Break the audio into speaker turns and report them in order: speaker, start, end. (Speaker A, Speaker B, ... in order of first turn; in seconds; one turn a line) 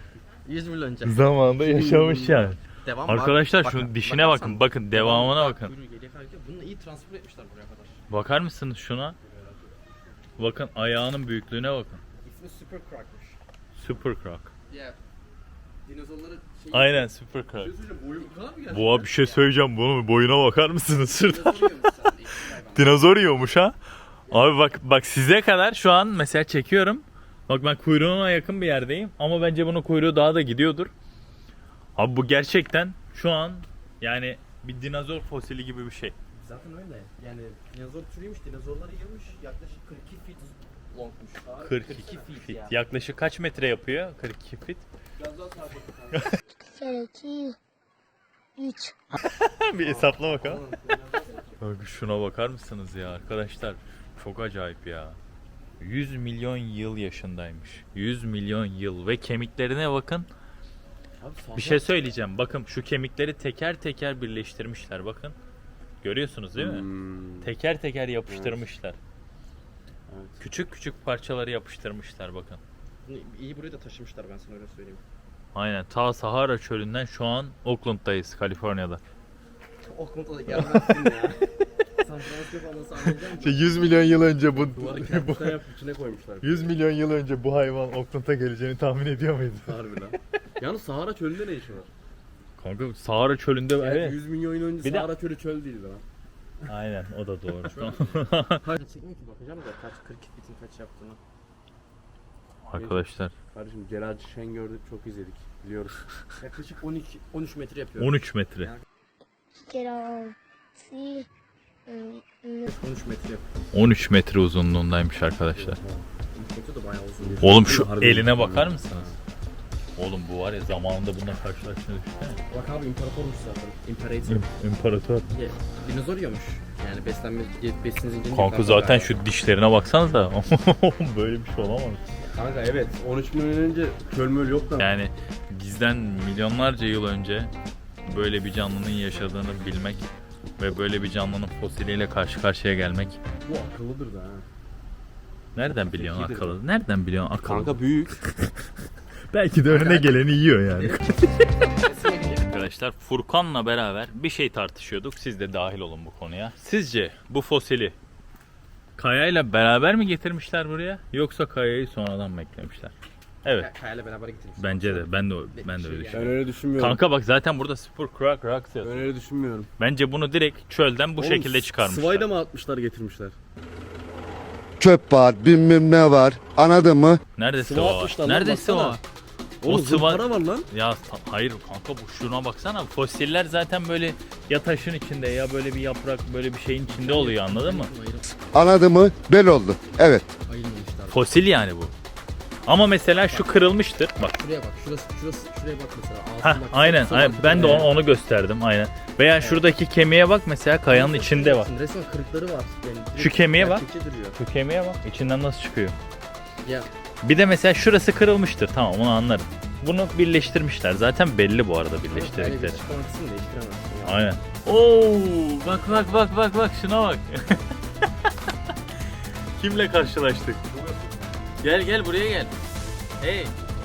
Speaker A: 0.4-1.2
Speaker B: 1.0-5.7
Speaker C: 1.7-2.4
Speaker A: 2.8-8.0
Speaker B: 8.1-9.2
Speaker B: 10.4-12.0
Speaker A: 12.2-13.4
Speaker B: 13.8-14.5
Speaker A: 14.7-15.0
Speaker A: 15.8-17.1
Speaker B: 16.7-17.7
Speaker C: 17.6-19.1
Speaker A: 18.2-19.4
Speaker B: 18.7-21.9
Speaker A: 21.1-23.1
Speaker B: 22.5-23.7
Speaker B: 24.3-30.9
Speaker B: 31.9-36.1
Speaker A: 36.3-42.8
Speaker C: 41.4-42.1
Speaker B: 41.6-44.9
Speaker C: 45.2-46.3
Speaker D: 46.6-47.6
Speaker D: 48.5-49.0
Speaker B: 49.1-50.6
Speaker A: 49.8-51.0
Speaker B: 51.6-55.2
Speaker B: 55.8-60.3
Speaker C: 61.2-61.9
Speaker B: 61.5-65.3
Speaker B: 66.0-66.9
Speaker C: 66.6-67.5
Speaker B: 67.4-69.0
Speaker C: 68.3-68.6
Speaker C: 70.1-70.4
Speaker B: 70.4-72.6
Speaker A: 73.0-75.0
Speaker B: 75.5-79.0
Speaker A: 79.8-85.3
Speaker B: 80.5-81.1
Speaker B: 83.2-85.6
Speaker C: 84.8-86.7
Speaker B: 86.4-89.7
Speaker C: 89.6-91.9
Speaker B: 92.6-94.2
Speaker C: 93.8-96.0
Speaker B: 94.8-95.1
Speaker B: 96.6-98.6
Speaker A: 97.6-101.2
Speaker B: 102.7-103.3
Speaker C: 102.7-106.0
Speaker A: 106.4-108.8
Speaker B: 108.0-108.7
Speaker D: 109.6-111.3
Speaker D: 111.8-112.6
Speaker A: 112.6-113.5
Speaker B: 113.7-115.8
Speaker C: 115.5-116.0
Speaker A: 116.3-117.4
Speaker C: 117.2-119.0
Speaker B: 117.4-119.1
Speaker B: 120.0-122.4
Speaker A: 122.5-124.5
Speaker B: 124.3-125.3
Speaker A: 125.3-129.1
Speaker B: 128.3-132.0
Speaker C: 132.3-134.9
Speaker B: 134.8-137.5
Speaker B: 138.1-143.2
Speaker C: 143.4-144.4
Speaker B: 145.5-147.8
Speaker C: 145.7-146.6
Speaker C: 147.4-148.2
Speaker B: 149.3-151.5
Speaker A: 149.7-150.1
Speaker A: 150.7-152.5
Speaker B: 152.5-157.9
Speaker B: 158.9-163.7
Speaker A: 163.5-166.3
Speaker B: 164.6-169.1
Speaker C: 166.1-167.0
Speaker C: 168.8-169.7
Speaker B: 169.8-172.3
Speaker C: 171.2-173.3
Speaker E: 174.8-177.2
Speaker B: 177.3-179.0
Speaker C: 177.6-179.0
Speaker C: 179.6-180.7
Speaker B: 179.6-187.9
Speaker A: 186.9-188.3
Speaker E: 188.5-190.2
Speaker A: 190.4-191.2
Speaker B: 191.1-191.9
Speaker B: 192.7-194.3
Speaker A: 193.3-197.9
Speaker B: 196.4-201.7
Speaker A: 199.4-199.7
Speaker A: 200.9-204.4
Speaker B: 203.2-206.0
Speaker B: 207.2-212.8
Speaker A: 212.1-214.2
Speaker B: 214.0-217.6
Speaker B: 219.6-220.6
Speaker C: 220.7-221.2
Speaker B: 221.6-222.5
Speaker B: 223.2-223.5